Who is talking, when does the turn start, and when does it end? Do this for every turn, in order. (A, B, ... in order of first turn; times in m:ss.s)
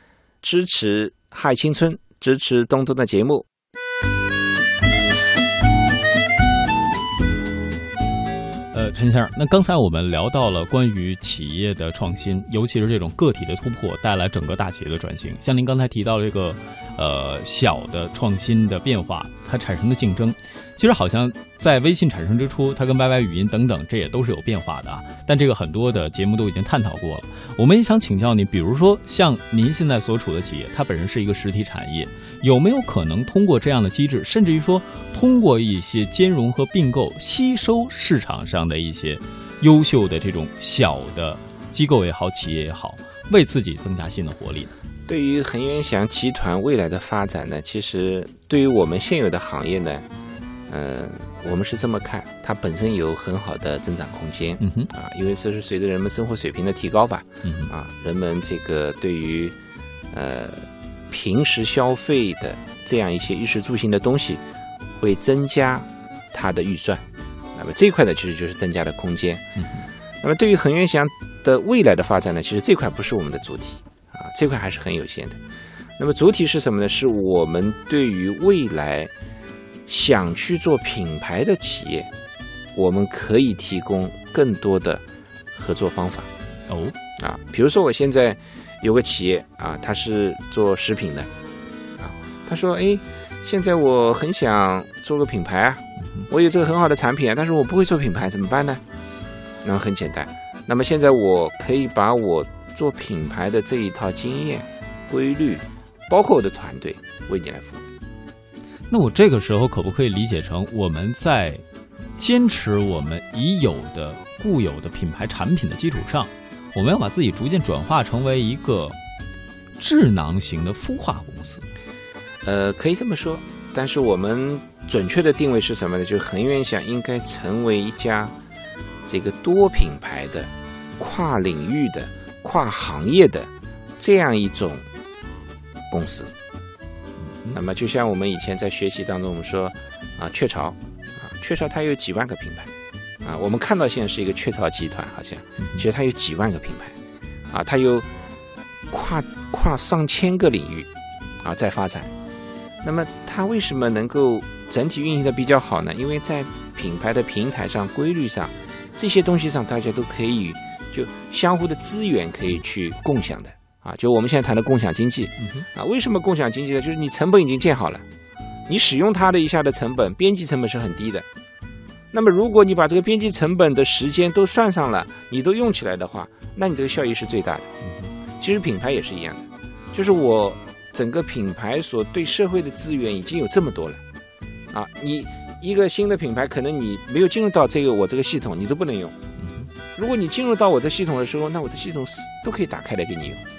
0:00.4-0:03.5 A
0:08.7-0:44.7 B
0:45.1-0:50.0 A
0:50.7-0:59.6 A
0:54.6-0:54.9 B
0:57.4-0:57.7 B
1:00.1-1:04.4 A
1:05.0-1:09.4 A
1:09.6-1:09.8 B
1:10.2-1:15.4 A
1:16.0-1:19.1 A
1:19.9-1:22.1 A
1:22.8-1:25.0 A
1:25.5-1:26.3 A
1:26.7-1:27.0 B
1:27.2-1:31.3 A
1:32.0-1:38.8 A
1:39.6-1:47.8 A
1:48.9-1:51.6 B
1:52.2-1:59.0 B
1:59.8-2:01.6 B
2:02.4-2:08.3 A
2:09.1-2:14.9 A
2:15.9-2:16.3 A
2:17.5-2:22.7 A
2:23.2-2:27.0 A
2:27.5-2:28.1 A
2:28.9-2:30.9 A
2:31.4-2:32.1 A
2:32.8-2:48.0 A
2:45.4-2:45.7 B
2:48.7-2:51.3 A
2:52.1-2:57.7 A
2:58.4-3:04.0 A
3:04.7-3:09.2 A
3:10.0-3:13.4 A